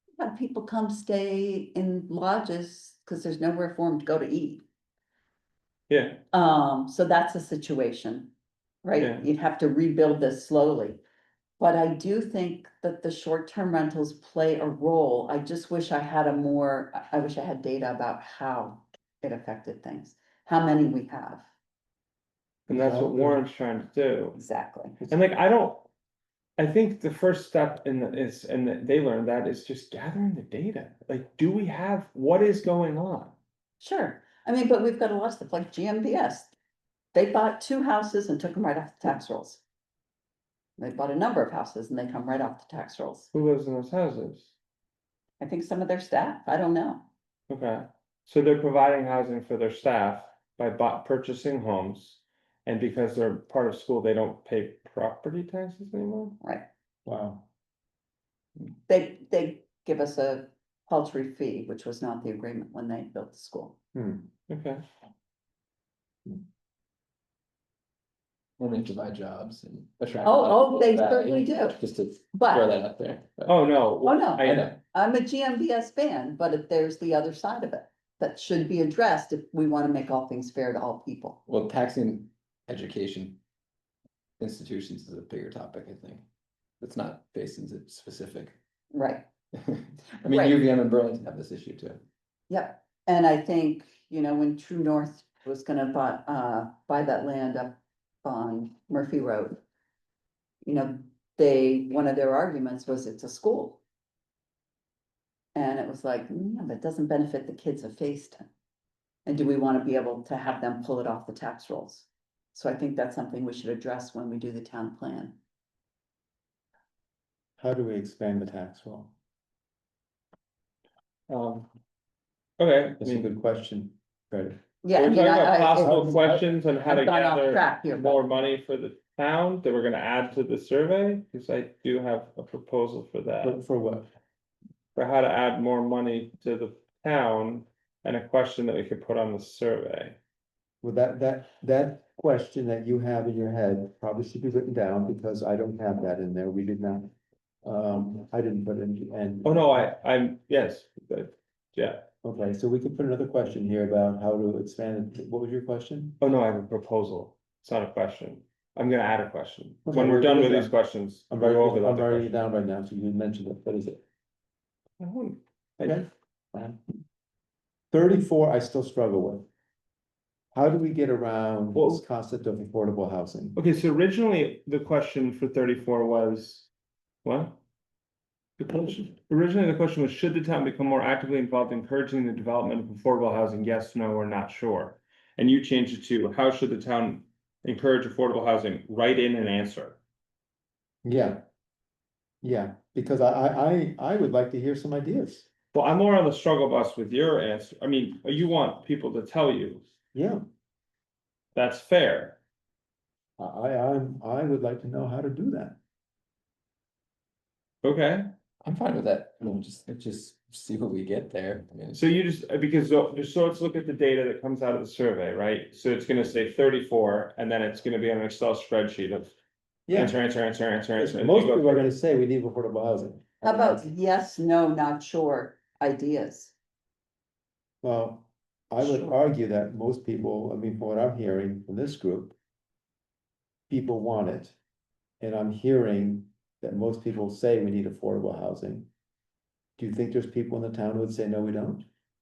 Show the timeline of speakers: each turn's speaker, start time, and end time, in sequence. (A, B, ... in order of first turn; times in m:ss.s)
0:00.2-0:04.6 A
0:05.9-0:06.2 B
0:06.3-0:08.3 A
0:08.8-0:11.0 A
0:09.0-0:09.2 B
0:11.6-0:21.4 A
0:22.7-0:23.4 C
0:22.7-0:24.4 B
0:24.4-0:25.0 A
0:25.1-0:25.9 B
0:26.6-0:33.3 B
0:33.8-0:36.5 A
0:37.1-0:39.6 A
0:40.8-0:43.3 A
0:43.3-0:44.5 B
0:45.4-0:47.1 A
0:47.5-0:56.4 B
0:57.1-0:57.5 C
0:58.9-1:03.8 A
1:03.9-1:04.3 C
1:04.5-1:04.8 B
1:08.6-1:13.6 D
1:10.2-1:11.8 A
1:12.3-1:12.7 A
1:13.5-1:14.7 B
1:14.0-1:21.4 A
1:14.4-1:14.8 D
1:21.5-1:23.4 D
1:24.4-1:26.2 D
1:26.8-1:28.6 D
1:28.9-1:29.2 A
1:29.6-1:32.0 D
1:30.3-1:30.6 A
1:32.5-1:39.6 A
1:40.6-1:43.8 A
1:45.6-1:48.4 A
1:49.3-1:55.4 A
1:57.6-1:59.1 C
2:01.3-2:01.7 B
2:02.6-2:03.3 B
2:03.0-2:04.6 C
2:04.8-2:06.3 A
2:05.0-2:13.6 B
2:05.8-2:06.4 C
2:06.8-2:08.2 A
2:13.4-2:14.1 C
2:15.0-2:20.2 B
2:20.8-2:27.1 C
2:27.6-2:29.9 C
2:29.4-2:32.1 B
2:32.2-2:36.2 C
2:36.2-2:42.3 B
2:39.9-2:40.8 C
2:41.3-2:44.0 C
2:45.0-2:46.0 B
2:45.8-2:46.8 C
2:47.9-2:49.5 C
2:50.5-2:53.6 C
2:51.8-2:52.0 B
2:53.6-2:56.7 B
2:57.2-2:57.6 B
2:58.6-3:10.0 B
3:11.0-3:11.4 C
3:12.4-3:15.5 C
3:15.7-3:19.8 B
3:20.1-3:20.4 C
3:21.6-3:22.4 B
3:23.4-3:25.8 C
3:27.8-3:28.3 B
3:28.6-3:32.0 D
3:31.9-3:39.3 B
3:39.9-3:40.2 C
3:39.9-3:41.9 B
3:41.0-3:43.9 C
3:43.4-3:46.5 A
3:47.8-3:52.4 C
3:48.8-3:49.1 A
3:53.7-3:54.6 C
3:55.2-3:58.9 C
3:59.8-4:01.9 C